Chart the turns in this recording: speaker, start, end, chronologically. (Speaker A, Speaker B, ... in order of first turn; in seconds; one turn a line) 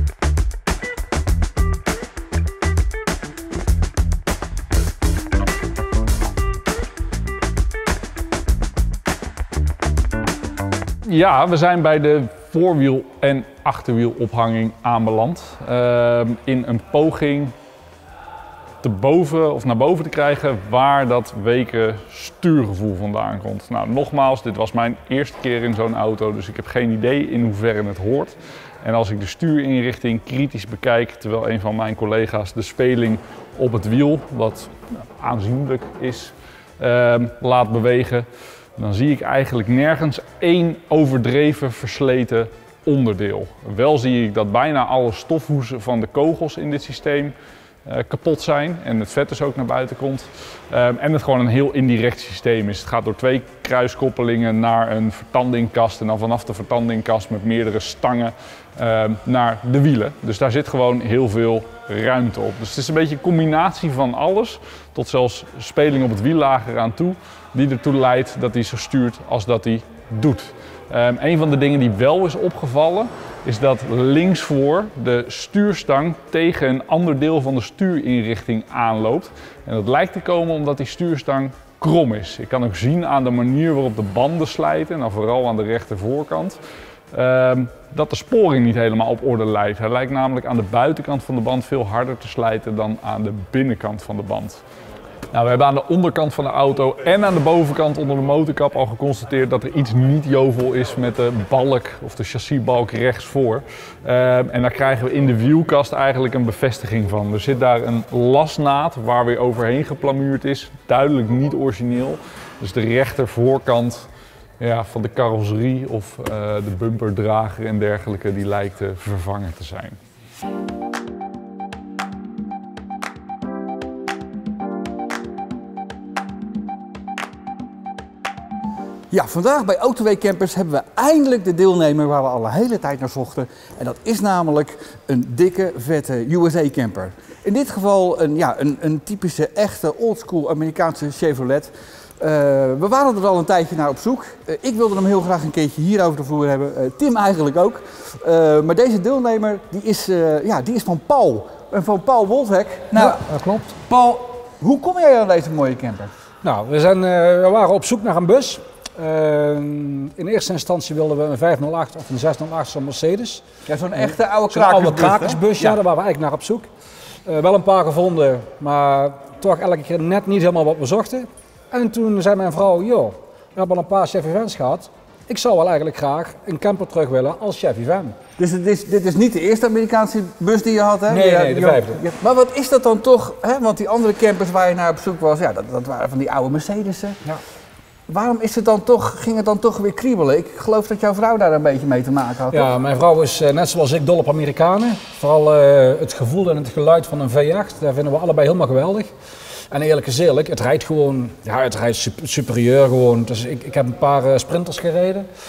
Speaker A: 11.0-17.5
Speaker A: 18.8-47.3
Speaker A: 47.9-86.6
Speaker A: 87.1-94.6
Speaker A: 95.3-114.1
Speaker A: 114.6-120.0
Speaker B: 129.1-156.1
Speaker C: 152.9-153.8
Speaker C: 156.4-163.4
Speaker B: 163.7-165.8
Speaker C: 164.0-166.7
Speaker C: 167.2-178.2
Speaker B: 178.4-187.2
Speaker C: 181.1-182.0
Speaker B: 188.1-192.7
Speaker C: 192.5-199.1
Speaker C: 199.7-205.3